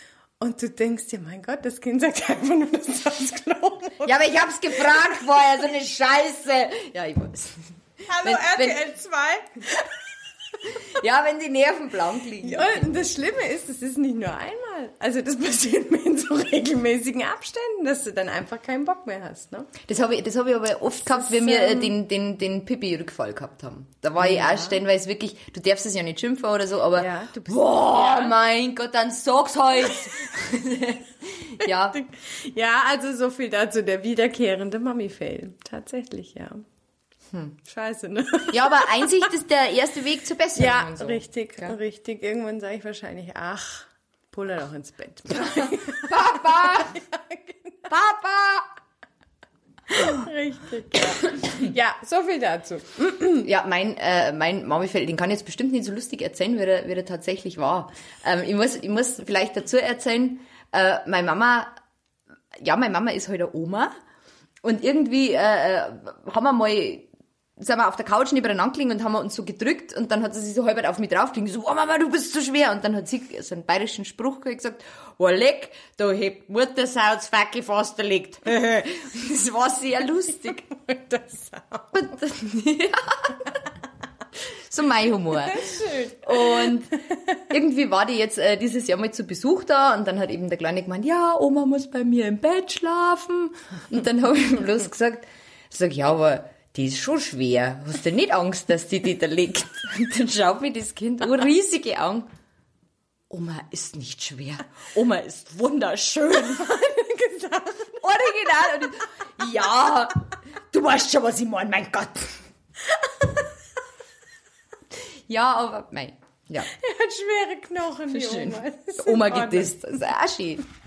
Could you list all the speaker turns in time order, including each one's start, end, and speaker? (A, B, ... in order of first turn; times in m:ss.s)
0:00.4-0:04.2 A
0:04.0-0:08.8 B
0:08.1-0:09.9 A
0:10.7-0:12.9 B
0:12.4-0:19.7 A
0:19.9-0:32.0 B
0:21.1-0:21.9 A
0:24.2-0:24.8 A
0:27.0-0:28.4 A
0:31.9-0:36.6 A
0:37.6-0:39.3 A
0:38.5-0:41.8 B
0:40.6-0:47.9 A
0:45.4-0:47.0 B
0:47.9-0:48.7 B
0:49.9-0:53.4 A
0:53.4-1:01.7 B
1:02.6-1:03.9 B
1:04.6-1:20.7 B
1:20.6-1:22.0 A
1:21.9-1:23.6 B
1:24.7-1:42.3 B
1:25.4-1:26.7 A
1:43.3-1:46.8 B
1:46.4-1:48.1 A
1:48.0-1:52.4 B
1:52.8-1:53.5 A
1:55.3-1:56.7 B
1:56.7-1:59.8 A
1:58.1-2:00.6 B